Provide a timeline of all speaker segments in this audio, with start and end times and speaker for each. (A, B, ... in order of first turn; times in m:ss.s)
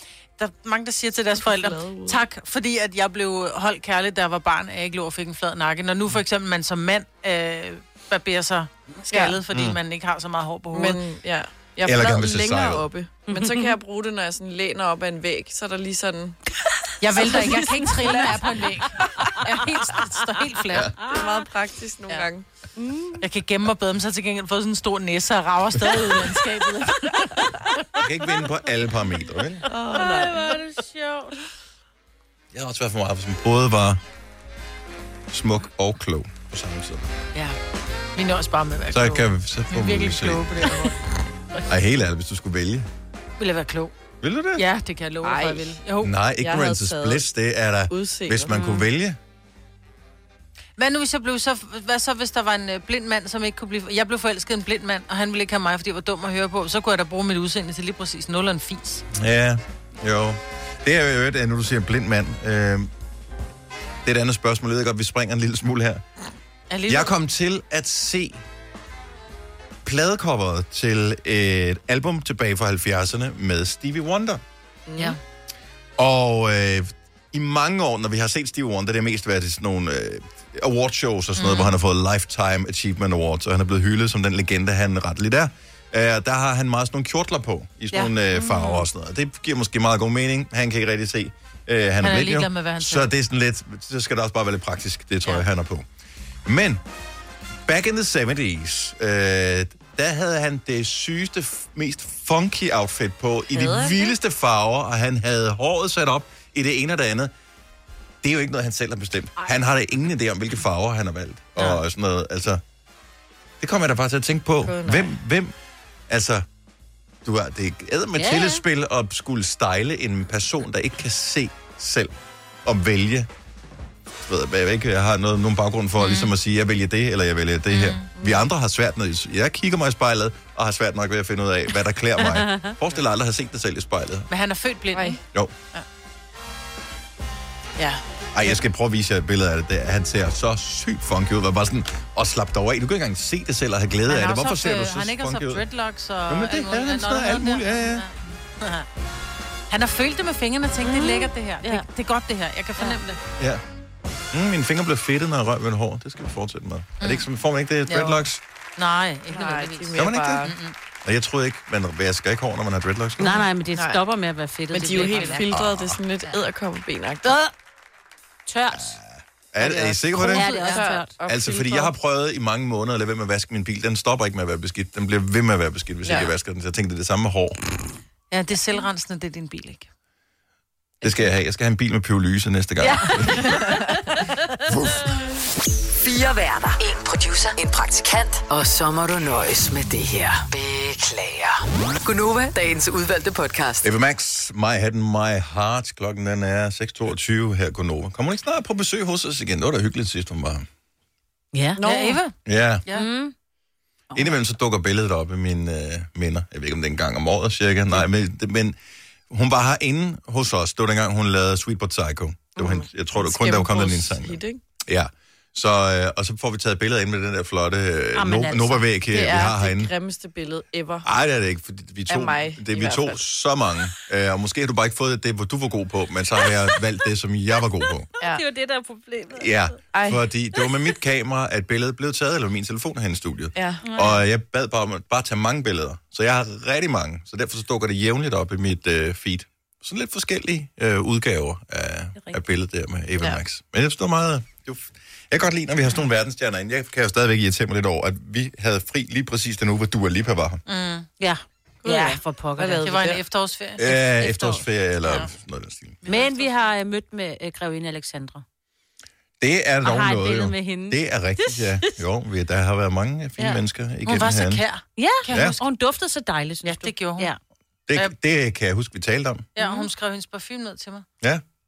0:00.4-0:11.0 A
0:01.4-0:02.2 B
0:09.1-0:09.4 B
0:09.5-0:09.8 C
0:10.7-0:16.4 B
0:11.8-0:12.9 C
0:13.3-0:13.8 D
0:17.0-0:20.9 A
0:17.2-0:22.4 B
0:17.2-0:18.6 D
0:21.0-0:21.5 D
0:22.8-0:23.2 D
0:23.2-0:27.9 A
0:28.0-0:29.6 C
0:29.7-0:30.6 B
0:29.9-0:31.3 D
0:32.5-0:34.0 C
0:35.3-0:37.1 C
0:38.2-0:41.0 A
0:38.9-0:40.7 C
0:41.7-0:42.9 C
0:43.4-0:43.9 A
0:44.2-0:44.6 C
0:44.6-0:46.1 A
0:45.2-0:45.8 B
0:46.0-0:49.2 C
0:46.4-0:47.2 B
0:47.9-0:48.6 B
0:48.5-0:48.9 D
0:50.8-0:59.0 A
0:59.1-1:02.9 C
1:04.0-1:06.0 C
1:06.7-1:07.1 A
1:06.9-1:08.4 C
1:09.8-1:14.4 C
1:14.9-1:15.2 B
1:16.0-1:35.9 C
1:21.4-1:21.7 A
1:32.0-1:33.1 A
1:36.4-1:36.8 C
1:37.7-1:47.3 C
1:43.5-1:44.2 B
1:48.2-1:52.6 C
1:53.6-1:55.5 C
1:54.6-1:55.1 B
1:56.1-1:56.5 C
1:57.2-2:02.1 C
1:58.2-1:58.6 D
2:02.6-2:03.3 C
2:04.2-2:14.3 C
2:07.7-2:08.1 A
2:08.2-2:08.4 B
2:12.3-2:12.7 D
2:14.3-2:15.2 A
2:14.9-2:15.2 B
2:18.3-2:25.7 C
2:24.1-2:28.9 A
2:26.3-2:28.0 C
2:29.7-2:33.2 A
2:30.8-2:31.8 D
2:34.3-2:38.4 C
2:37.0-2:37.3 A
2:37.9-2:38.2 A
2:38.8-2:40.7 A
2:39.3-2:40.6 B
2:39.9-2:40.5 C
2:41.0-2:43.5 C
2:43.2-2:45.5 D
2:43.8-2:44.0 B
2:44.7-2:47.4 B
2:45.0-2:45.5 A
2:45.5-2:46.0 C
2:47.2-2:47.5 A
2:48.5-2:49.0 D
2:48.7-2:50.5 C
2:49.6-2:51.1 D
2:50.3-2:50.9 A
2:50.4-2:51.9 B
2:51.3-2:57.6 C
2:56.0-2:56.3 B
2:58.3-2:59.9 A
3:01.0-3:03.6 C
3:02.8-3:03.8 D
3:03.4-3:04.0 B
3:04.7-3:05.1 C
3:06.0-3:13.9 E
3:13.8-3:20.7 C
3:21.5-3:21.8 D
3:21.8-3:22.2 B
3:21.8-3:22.4 A
3:22.4-3:22.8 C
3:22.9-3:23.3 D
3:24.1-3:28.8 C
3:29.3-3:39.9 C
3:32.6-3:34.6 B
3:38.2-3:38.9 D
3:39.1-3:41.1 B
3:41.0-3:48.1 C
3:42.1-3:43.2 B
3:46.4-3:46.8 D
3:48.2-3:49.8 D
3:49.3-4:10.6 C
3:49.9-3:50.2 B
3:53.6-3:53.8 B
3:53.8-3:54.2 D
4:10.7-4:11.1 A
4:11.2-4:12.9 D
4:11.8-4:13.2 B
4:12.8-4:14.0 A
4:13.8-4:16.0 C
4:14.2-4:14.6 D
4:16.0-4:16.7 A
4:16.1-4:18.4 D
4:19.4-4:24.6 C
4:19.8-4:21.9 D
4:23.4-4:23.6 D
4:24.1-4:25.6 A
4:25.0-4:27.4 D
4:25.3-4:25.6 C
4:26.6-4:27.3 A
4:27.9-4:29.5 C
4:29.6-4:29.9 D
4:29.6-4:31.1 A